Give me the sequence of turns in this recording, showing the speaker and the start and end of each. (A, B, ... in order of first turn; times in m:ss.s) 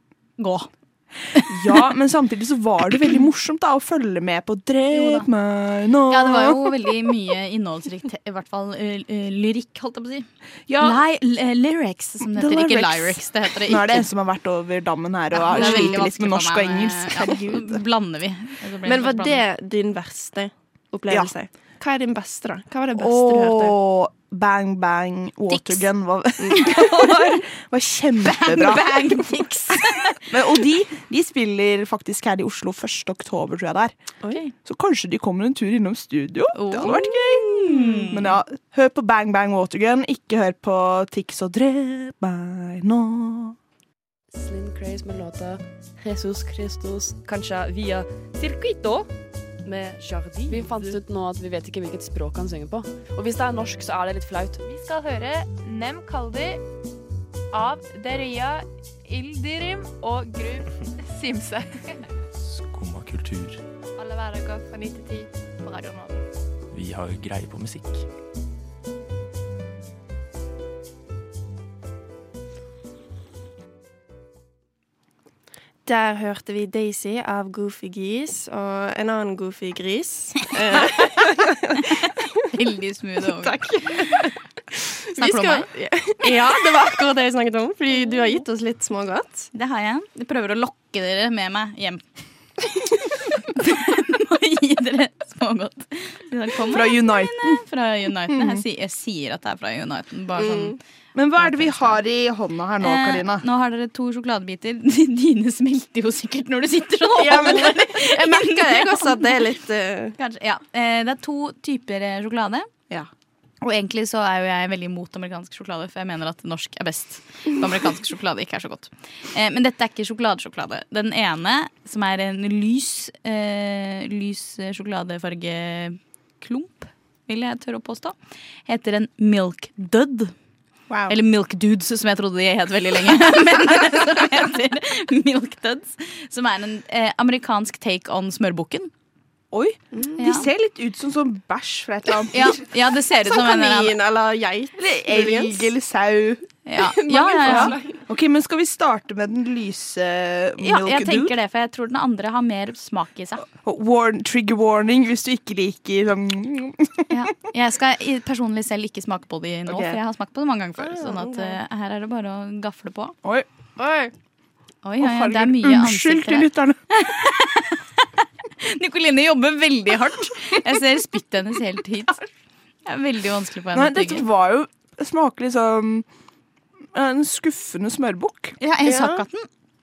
0:00.4-0:00.7 A
0:01.3-0:01.8 A
0:01.5-0:06.9 B
0:04.9-0:05.3 A
0:06.1-0:10.3 A
0:10.7-0:11.0 B
0:10.8-0:14.1 A
0:12.2-0:17.8 B
0:15.3-0:19.4 A
0:15.6-0:15.9 C
0:18.8-0:23.8 C
0:23.0-0:29.3 B
0:25.5-0:25.8 A
0:26.6-0:27.1 A
0:28.2-0:30.3 A
0:30.2-0:33.9 B
0:34.6-0:43.6 B
0:36.6-0:38.3 A
0:44.4-0:49.1 D
0:49.6-0:54.6 D
0:50.5-0:50.9 E
0:54.6-0:56.6 E
0:57.5-1:01.8 E
1:02.4-1:03.6 F
1:04.0-1:06.2 E
1:06.7-1:08.0 F
1:15.9-1:21.9 C
1:22.5-1:24.2 A
1:23.4-1:24.3 C
1:25.1-1:29.5 C
1:25.2-1:25.7 A
1:29.5-1:32.0 A
1:33.4-1:40.8 A
1:36.7-1:37.6 B
1:38.3-1:38.6 B
1:40.4-1:40.8 C
1:41.1-1:43.4 B
1:41.4-1:42.0 A
1:42.8-1:49.3 A
1:47.2-1:50.1 C
1:50.2-1:52.7 A
1:53.6-2:08.1 A
2:08.7-2:10.3 A
2:10.9-2:11.2 B
2:11.1-2:18.9 A
2:19.5-2:22.6 B
2:19.9-2:20.2 C
2:20.2-2:20.5 A
2:22.3-2:23.9 A
2:23.3-2:25.7 C
2:24.8-2:26.5 B
2:26.6-2:27.8 A
2:27.0-2:28.0 C
2:27.4-2:31.3 B
2:30.6-2:33.5 A
2:33.5-2:37.1 B
2:37.1-2:43.2 A
2:39.7-2:40.0 B
2:40.8-2:41.6 C
2:43.8-2:44.1 C
2:44.8-2:48.1 A
2:45.0-2:46.8 B
2:48.6-2:52.2 A
2:52.9-2:54.2 A
2:53.7-2:56.1 B
2:56.9-2:58.6 B
2:58.6-2:59.5 A
2:58.8-2:59.2 C